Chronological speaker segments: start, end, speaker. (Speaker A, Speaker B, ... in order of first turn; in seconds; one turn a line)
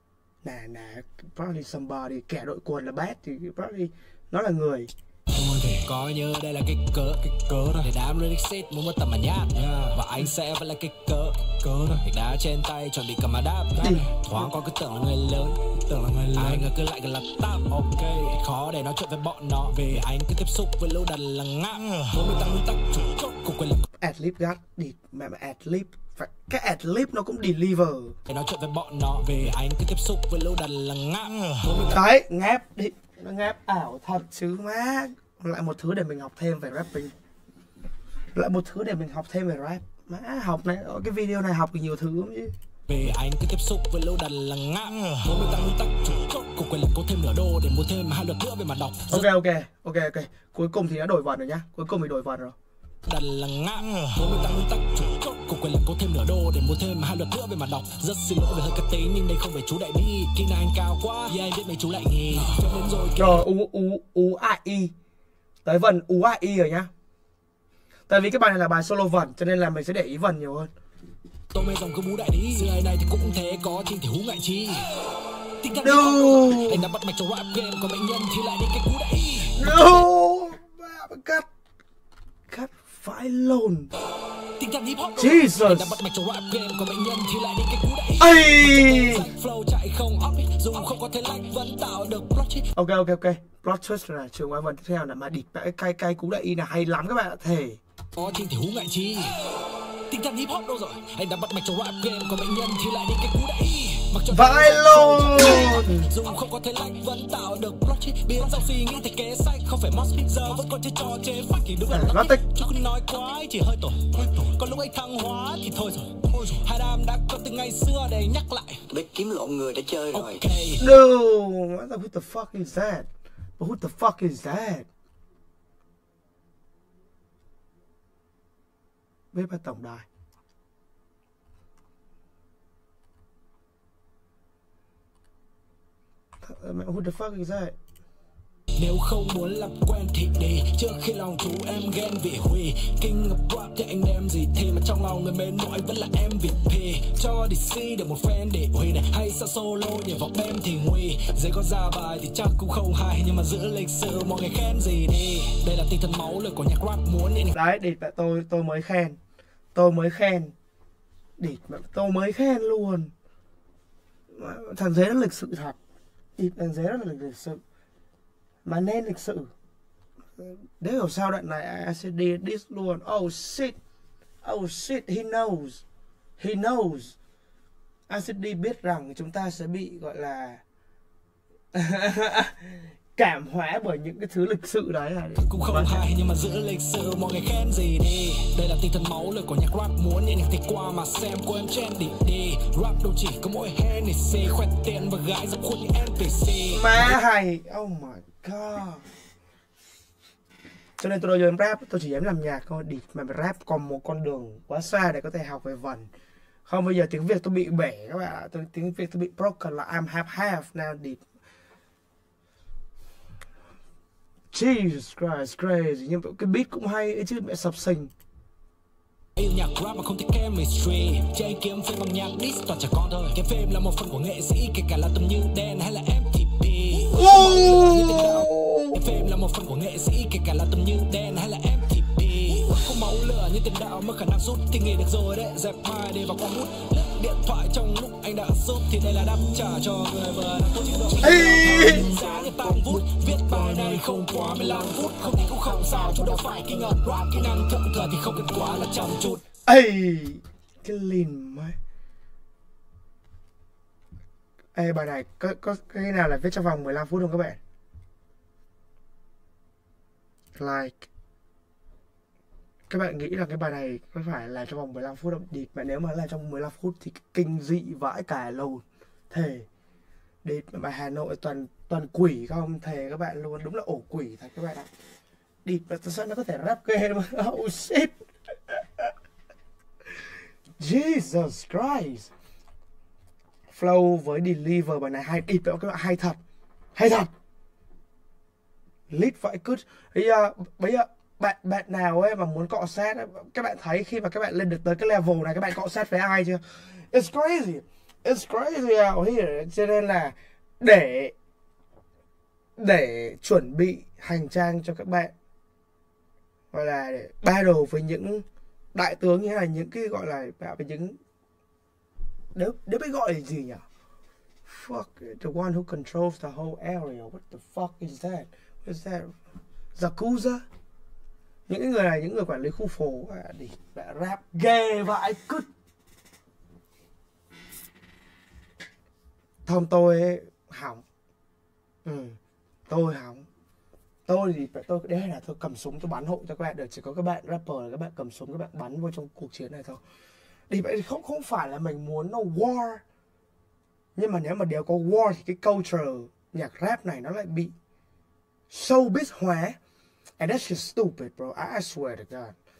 Speaker A: 0.4-4.9
Speaker B: 5.3-23.8
Speaker A: 13.8-14.5
Speaker A: 24.0-28.1
Speaker B: 28.3-32.0
Speaker A: 31.9-37.1
Speaker A: 38.3-42.5
Speaker B: 42.9-49.3
Speaker A: 49.1-52.5
Speaker B: 53.0-63.4
Speaker A: 63.1-64.9
Speaker A: 65.6-66.9
Speaker A: 68.1-70.7
Speaker B: 71.5-74.8
Speaker B: 75.6-80.0
Speaker A: 75.8-76.8
Speaker A: 79.5-81.5
Speaker A: 82.5-83.9
Speaker B: 84.6-92.7
Speaker A: 85.2-86.0
Speaker A: 88.2-89.3
Speaker A: 92.8-97.8
Speaker B: 98.2-99.3
Speaker B: 100.1-118.8
Speaker A: 104.3-106.1
Speaker A: 111.9-112.4
Speaker C: 118.9-120.4
Speaker B: 120.1-120.8
Speaker A: 120.8-124.9
Speaker A: 129.3-130.1
Speaker A: 136.4-137.7
Speaker B: 138.8-157.5
Speaker A: 157.5-159.2
Speaker A: 159.7-160.5
Speaker A: 161.4-163.1
Speaker A: 164.3-165.8
Speaker A: 166.4-167.6
Speaker A: 168.6-169.5
Speaker A: 170.4-173.8
Speaker A: 174.4-175.8
Speaker A: 176.4-177.2
Speaker A: 178.1-180.6
Speaker A: 181.7-186.0
Speaker B: 185.4-197.2
Speaker A: 196.7-199.0
Speaker A: 201.0-206.1
Speaker A: 206.7-211.2
Speaker A: 214.5-218.1
Speaker B: 219.3-249.4
Speaker A: 227.1-229.3
Speaker A: 241.2-242.1
Speaker C: 241.3-242.5
Speaker C: 243.6-247.7
Speaker A: 249.7-251.8
Speaker A: 254.7-257.6
Speaker A: 260.6-261.1
Speaker A: 262.9-269.7
Speaker A: 270.4-274.9
Speaker A: 275.6-278.1
Speaker A: 278.7-279.1
Speaker A: 280.8-282.3
Speaker A: 283.7-286.4
Speaker A: 286.9-287.3
Speaker A: 289.1-301.3
Speaker A: 302.8-305.3
Speaker A: 306.7-311.2
Speaker A: 312.5-313.8
Speaker A: 314.6-319.3
Speaker A: 319.9-320.6
Speaker A: 321.7-325.7
Speaker A: 329.6-331.0
Speaker A: 332.0-333.4
Speaker A: 334.2-340.0
Speaker A: 340.7-343.0
Speaker A: 344.1-347.7
Speaker A: 348.7-349.8
Speaker A: 350.4-352.5